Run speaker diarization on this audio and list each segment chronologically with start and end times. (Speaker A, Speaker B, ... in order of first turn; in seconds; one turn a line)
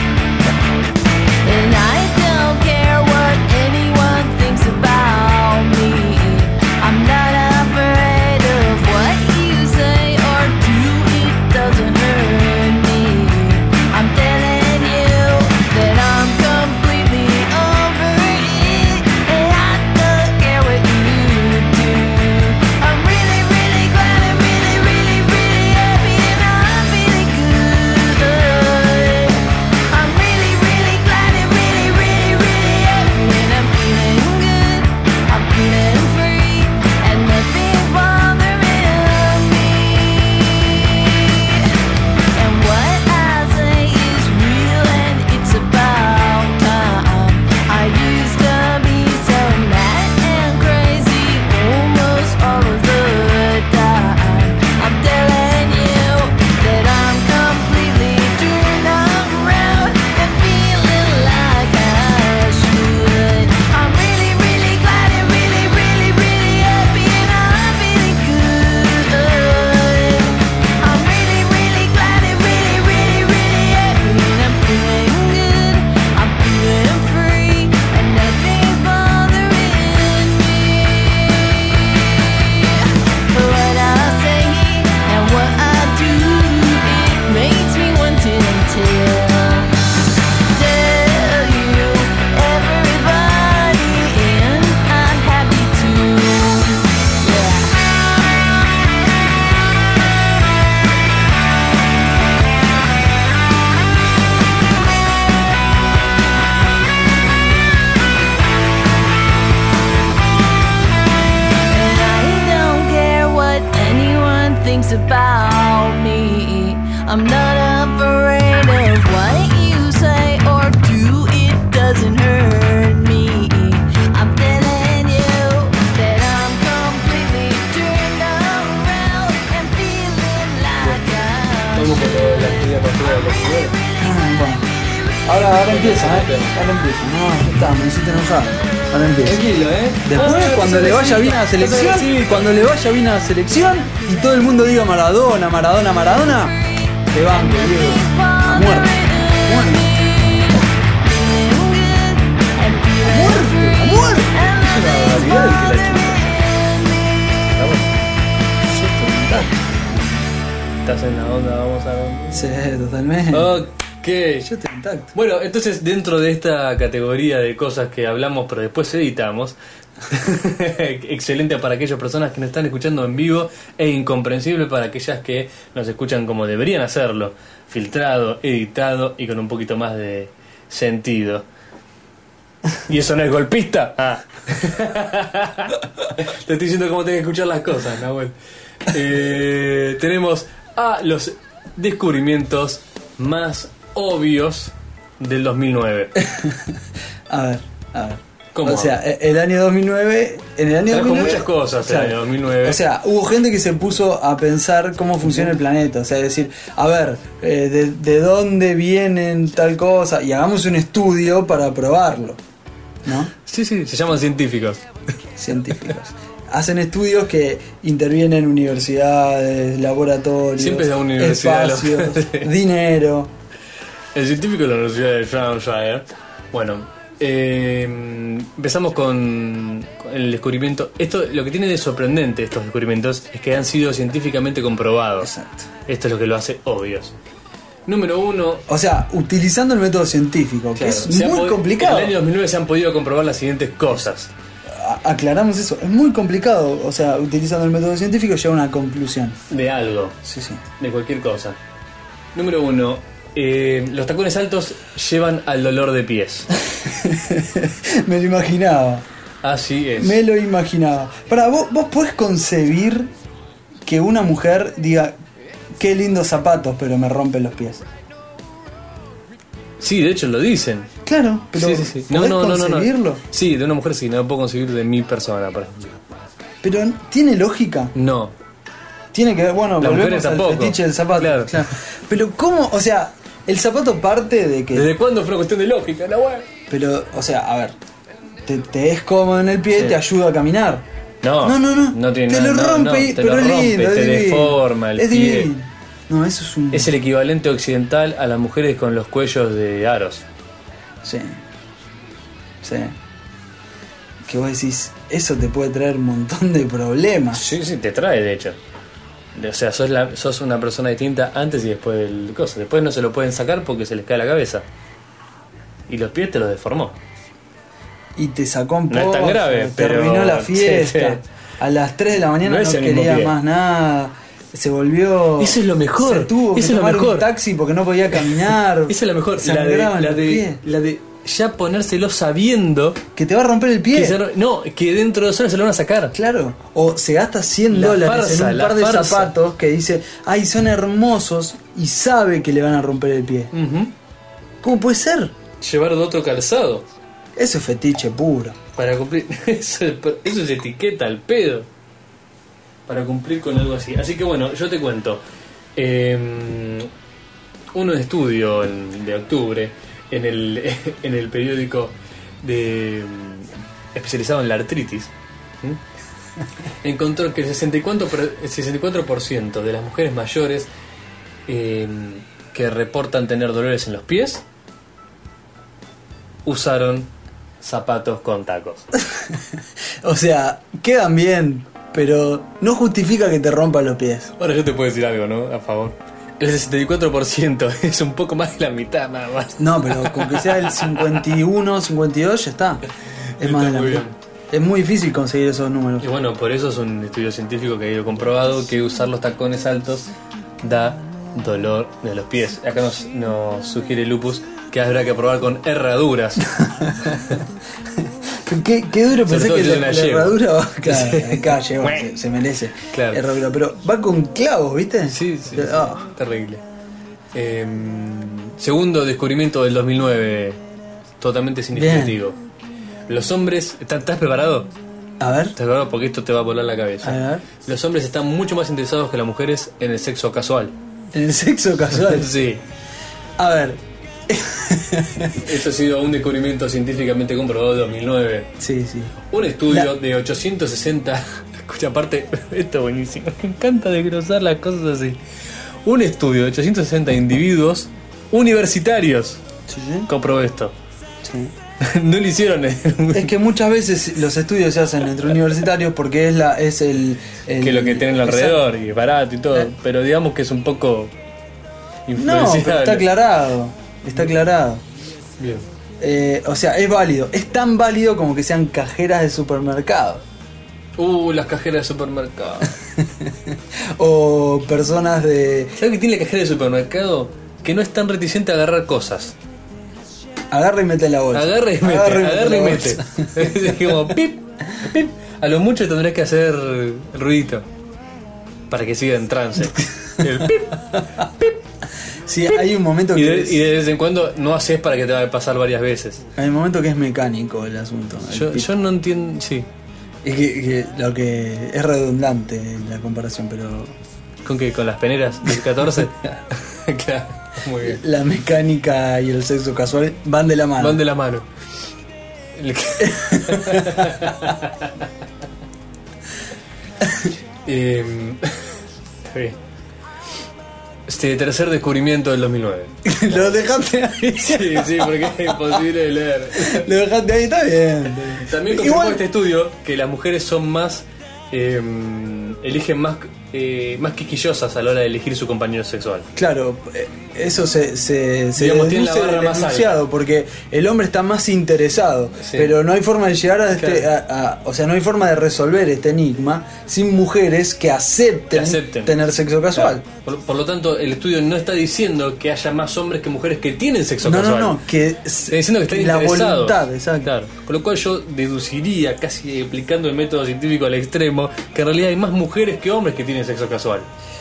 Speaker A: 0.4-0.7
Speaker B: 1.4-41.8
Speaker B: 42.3-89.8
Speaker B: 90.4-97.8
Speaker B: 111.7-132.7
Speaker C: 131.7-133.8
Speaker A: 134.0-134.7
Speaker A: 135.2-139.4
Speaker C: 135.6-136.6
Speaker C: 139.2-142.5
Speaker A: 140.0-146.6
Speaker A: 147.1-149.9
Speaker B: 147.3-156.6
Speaker A: 153.0-154.8
Speaker C: 154.5-156.4
Speaker C: 157.4-157.9
Speaker A: 158.7-160.2
Speaker C: 160.8-162.5
Speaker A: 162.3-163.6
Speaker C: 163.3-164.5
Speaker A: 164.4-165.1
Speaker C: 165.1-169.6
Speaker C: 170.1-181.4
Speaker C: 182.9-196.1
Speaker A: 196.2-196.8
Speaker A: 197.3-212.4
Speaker C: 198.5-199.0
Speaker C: 200.9-202.8
Speaker C: 205.2-205.6
Speaker A: 213.0-213.3
Speaker C: 213.4-214.8
Speaker A: 215.4-223.3
Speaker C: 220.6-222.5
Speaker C: 224.1-235.3
Speaker A: 235.2-235.7
Speaker C: 235.9-237.1
Speaker C: 237.8-238.6
Speaker A: 238.7-242.2
Speaker C: 240.7-244.3
Speaker A: 244.7-249.4
Speaker C: 249.5-250.2
Speaker A: 250.2-250.6
Speaker C: 250.8-251.6
Speaker C: 252.3-256.5
Speaker A: 256.7-259.0
Speaker C: 259.4-260.2
Speaker A: 260.0-263.1
Speaker A: 263.9-265.2
Speaker A: 265.8-267.8
Speaker C: 269.8-270.9
Speaker A: 271.0-273.2
Speaker C: 271.5-276.0
Speaker A: 276.6-277.9
Speaker C: 277.9-278.4
Speaker A: 279.1-284.9
Speaker C: 279.8-281.7
Speaker C: 284.7-286.4
Speaker A: 286.7-287.8
Speaker A: 288.4-290.8
Speaker C: 289.7-290.0
Speaker C: 291.2-295.5
Speaker A: 291.4-296.9
Speaker C: 296.7-300.2
Speaker A: 301.0-301.4
Speaker A: 302.6-302.9
Speaker A: 304.2-307.4
Speaker C: 307.3-308.6
Speaker C: 309.3-314.6
Speaker C: 315.9-317.0
Speaker A: 318.2-330.6
Speaker C: 318.9-321.2
Speaker C: 322.4-323.4
Speaker C: 325.4-327.3
Speaker C: 328.1-333.0
Speaker A: 333.1-334.2
Speaker C: 333.9-336.1
Speaker A: 336.1-343.5
Speaker C: 337.7-339.3
Speaker C: 343.5-343.9
Speaker A: 344.6-345.3
Speaker C: 345.6-346.9
Speaker A: 347.4-348.6
Speaker C: 348.8-351.7
Speaker C: 352.9-355.2
Speaker C: 355.7-356.9
Speaker C: 357.7-365.8
Speaker C: 366.8-370.7
Speaker C: 371.4-374.4
Speaker C: 376.4-377.1
Speaker C: 377.6-378.9
Speaker A: 380.0-384.3
Speaker C: 384.4-391.4
Speaker A: 389.6-392.8
Speaker C: 393.4-394.1
Speaker A: 393.4-396.1
Speaker C: 396.0-406.4
Speaker A: 406.4-407.4
Speaker A: 408.0-416.1
Speaker C: 409.2-412.1
Speaker C: 412.9-413.3
Speaker C: 415.1-416.6
Speaker C: 417.3-420.6
Speaker C: 421.2-422.4
Speaker A: 421.7-422.2
Speaker C: 423.1-424.7
Speaker A: 425.2-425.6
Speaker C: 425.6-430.8
Speaker A: 427.0-427.4
Speaker A: 431.1-432.3
Speaker C: 431.9-432.6
Speaker A: 433.4-435.4
Speaker C: 435.4-438.5
Speaker A: 438.6-439.2
Speaker C: 439.3-445.2
Speaker C: 445.8-449.4
Speaker A: 449.7-450.1
Speaker C: 450.1-450.7
Speaker A: 451.2-451.5
Speaker C: 451.8-453.3
Speaker A: 453.1-458.6
Speaker C: 457.6-461.1
Speaker C: 462.1-463.1
Speaker A: 462.1-464.8
Speaker C: 465.4-465.6
Speaker A: 466.0-470.2
Speaker C: 471.0-472.7
Speaker A: 473.0-475.8
Speaker C: 475.8-479.4
Speaker A: 480.5-483.9
Speaker C: 481.3-487.6
Speaker C: 488.7-491.6
Speaker A: 492.2-493.6
Speaker C: 492.4-496.2
Speaker A: 496.4-498.7
Speaker C: 498.3-499.7
Speaker A: 500.2-503.9
Speaker C: 504.4-508.0
Speaker A: 507.8-511.0
Speaker C: 510.8-511.5
Speaker C: 512.5-515.0
Speaker A: 513.0-514.4
Speaker C: 517.6-518.7
Speaker C: 519.2-519.6
Speaker C: 521.1-523.6
Speaker A: 523.0-525.8
Speaker C: 524.3-526.9
Speaker A: 526.5-529.2
Speaker C: 528.3-536.3
Speaker A: 536.3-550.0
Speaker C: 538.5-540.0
Speaker C: 542.4-542.7
Speaker C: 543.7-544.1
Speaker C: 548.5-549.2
Speaker C: 549.7-554.8
Speaker A: 554.2-557.3
Speaker C: 555.5-564.1